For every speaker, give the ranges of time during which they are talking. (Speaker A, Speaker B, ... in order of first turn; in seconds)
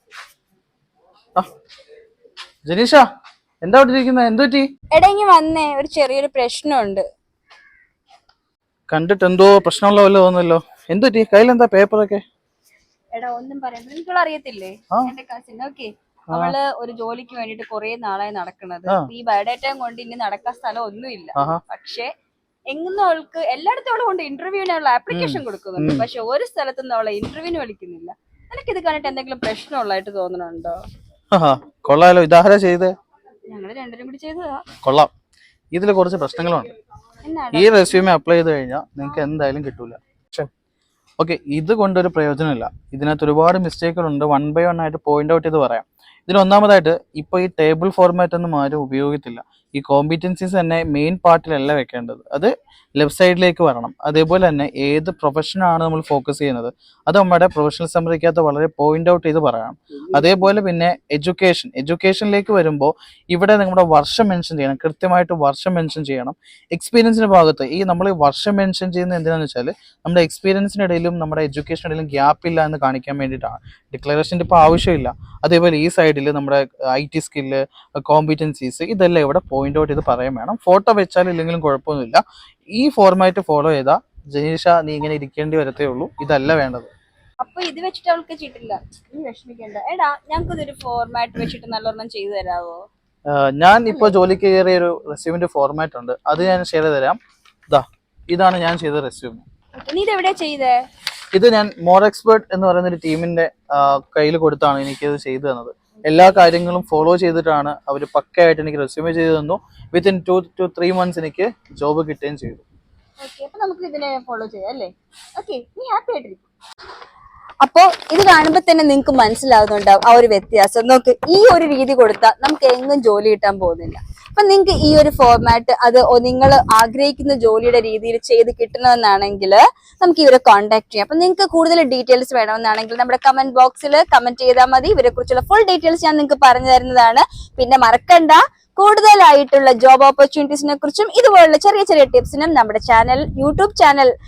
Speaker A: 2.7-3.1, 3.6-4.7, 8.9-12.2, 21.4-21.6, 25.1-26.1, 31.3-32.9, 34.8-35.1, 35.7-36.7, 37.5-40.5, 41.2-82.2, 82.8-86.9, 93.3-99.5, 101.3-112.6
Speaker B: 4.9-7.0, 13.1-22.1, 22.7-30.8, 33.5-34.7, 37.2-38.0, 87.4-92.8, 93.9-94.2, 99.8-100.8, 106.1-106.5, 113.2-116.5, 117.6-144.1